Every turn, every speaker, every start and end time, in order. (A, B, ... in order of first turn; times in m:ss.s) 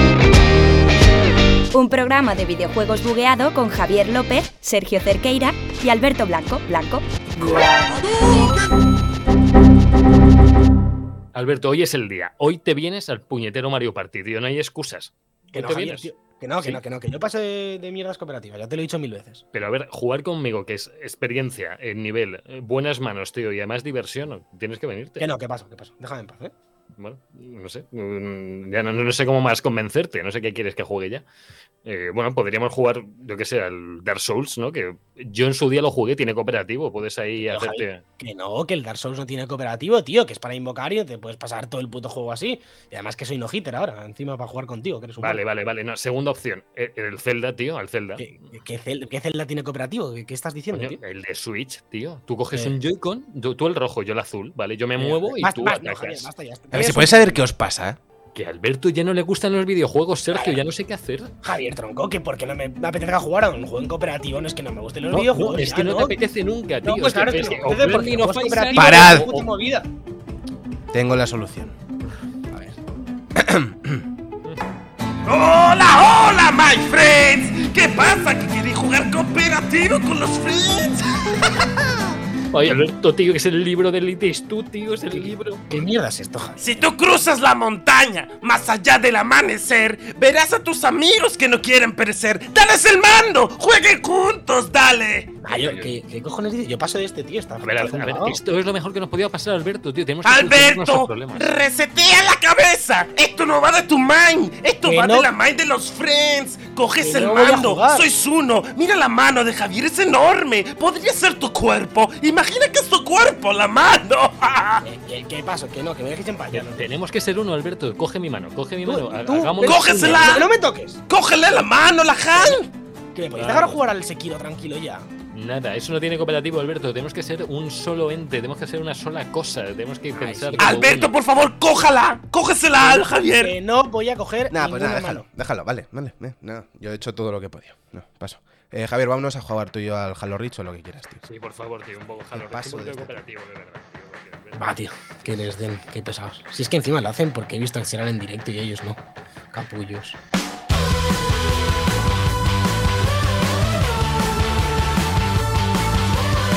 0:01.7-0:07.0 A
0:11.3-0:16.1 B
0:15.5-0:19.4 C
0:19.5-0:25.3 B
0:25.2-0:26.5 C
0:27.0-0:31.2 B
0:31.8-0:38.0 B
0:37.4-0:45.4 C
0:45.2-0:48.3 B
0:48.2-0:51.0 C
0:50.7-0:56.3 B
0:55.0-0:57.4 C
0:56.7-0:58.0 D
0:58.3-1:01.3 B
1:00.3-1:00.6 C
1:01.4-1:06.2 C
1:05.1-1:09.5 B
1:06.8-1:09.9 C
1:08.8-1:09.3 D
1:10.9-1:11.8 D
1:13.3-1:14.0 D
1:15.2-1:21.9 E
1:22.5-1:25.6 B
1:25.1-1:26.6 C
1:26.6-1:35.3 E
1:35.4-1:38.4 C
1:35.5-1:36.0 B
1:37.6-1:41.5 B
1:40.2-1:54.8 E
1:44.8-1:45.3 C
1:47.0-1:48.0 C
1:54.8-1:56.9 C
1:56.5-2:00.4 B
1:58.8-2:01.0 C
1:59.6-2:00.5 E
2:01.1-2:02.7 E
2:02.3-2:02.6 C
2:03.1-2:05.0 C
2:03.3-2:03.8 B
2:05.3-2:11.1 B
2:10.2-2:11.0 C
2:10.6-2:13.6 E
2:12.8-2:15.2 C
2:14.5-2:21.2 D
2:21.2-2:24.8 B
2:22.3-2:23.2 D
2:24.5-2:29.0 C
2:29.5-2:30.2 C